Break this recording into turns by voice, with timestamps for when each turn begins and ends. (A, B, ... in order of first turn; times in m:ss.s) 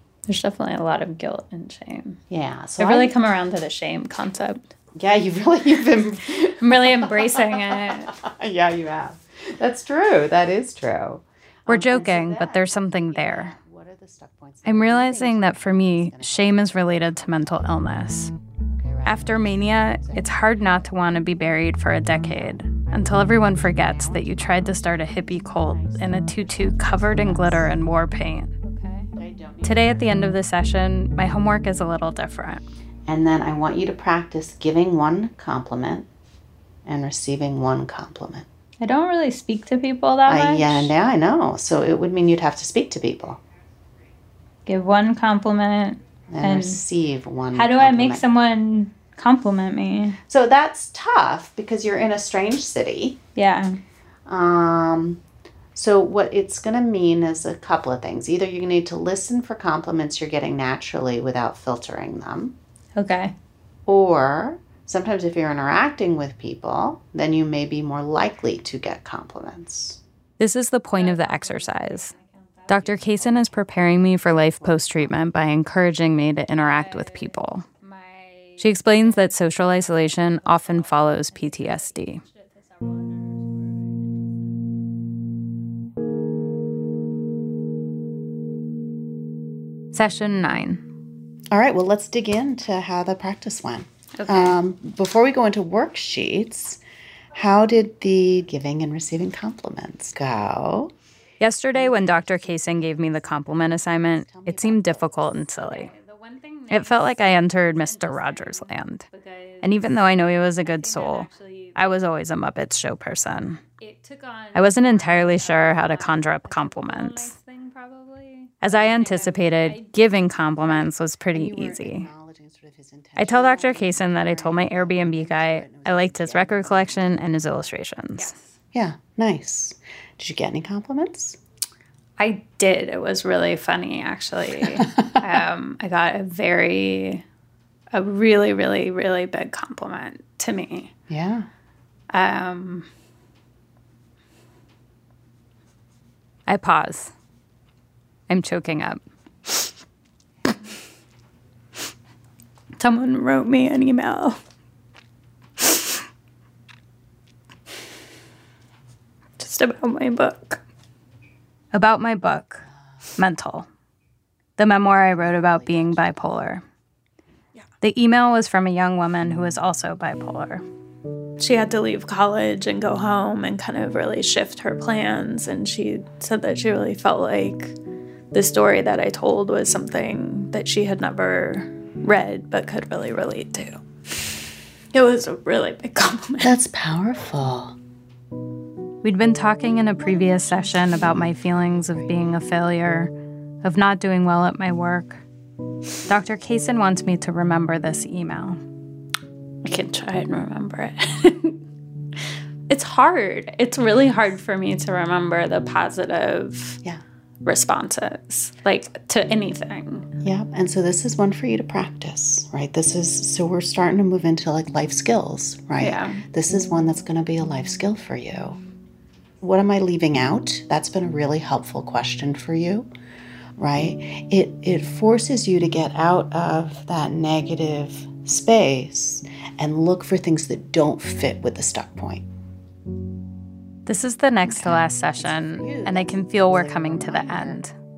0:00.3-0:02.2 A
0:02.3-0:03.2 B
0:02.8-0:04.7 A
0:04.9-0:17.9 B
0:06.6-0:08.1 A
0:06.7-0:07.1 C
0:11.7-0:13.6 C
0:14.6-0:18.3 C
0:18.7-0:20.6 B
0:19.0-0:28.5 C
0:22.1-0:24.9 B
0:25.4-0:27.8 B
0:28.6-0:29.1 A
0:29.1-0:30.3 B
0:29.6-0:32.6 C
0:33.0-0:36.1 B
0:36.8-0:38.5 B
0:38.8-0:40.9 A
0:40.2-0:43.4 B
0:44.6-0:46.8 A
0:46.3-0:48.2 B
0:47.5-0:50.2 A
0:50.3-0:53.2 B
0:53.4-0:53.8 A
0:54.2-0:55.2 B
0:55.7-1:02.6 B
1:03.0-1:03.3 A
1:03.8-1:10.0 B
1:10.4-1:12.1 C
1:10.9-1:12.9 A
1:12.7-1:17.6 C
1:12.7-1:15.3 B
1:16.5-1:24.3 A
1:18.6-1:22.2 C
1:29.9-1:30.8 C
1:31.5-1:36.8 B
1:34.2-1:34.5 A
1:37.3-1:40.9 B
1:41.4-1:45.9 C
1:41.7-1:45.6 B
1:45.5-1:51.9 A
1:46.7-1:49.0 C
1:49.6-1:53.6 C
1:53.8-2:00.2 A
1:54.5-1:57.3 C
1:58.6-2:02.1 C
2:00.6-2:07.3 B
2:03.2-2:08.3 C
2:08.2-2:08.5 A
2:08.7-2:11.4 B
2:12.2-2:17.2 A
2:17.9-2:20.9 A
2:21.1-2:21.5 B
2:22.1-2:22.9 A
2:26.5-2:27.1 C
2:28.3-2:29.0 C
2:32.8-2:34.4 A
2:35.6-2:36.0 A
2:39.4-2:40.6 A
2:41.7-2:43.7 C
2:44.6-2:46.6 C
2:45.0-2:46.4 B
2:47.8-2:50.6 C
2:51.4-2:57.7 A
2:58.3-3:04.3 A
3:04.9-3:06.5 A
3:06.4-3:07.8 B
3:09.0-3:13.1 C
3:10.0-3:12.4 B
3:13.6-3:15.2 C
3:16.1-3:18.6 C
3:19.6-3:21.6 A
3:22.7-3:26.8 A
3:27.4-3:30.1 A
3:30.2-3:38.6 B
3:35.8-3:36.2 A
3:39.4-3:42.9 B
3:43.6-3:52.3 B
3:53.8-3:57.7 C
3:54.5-3:57.6 B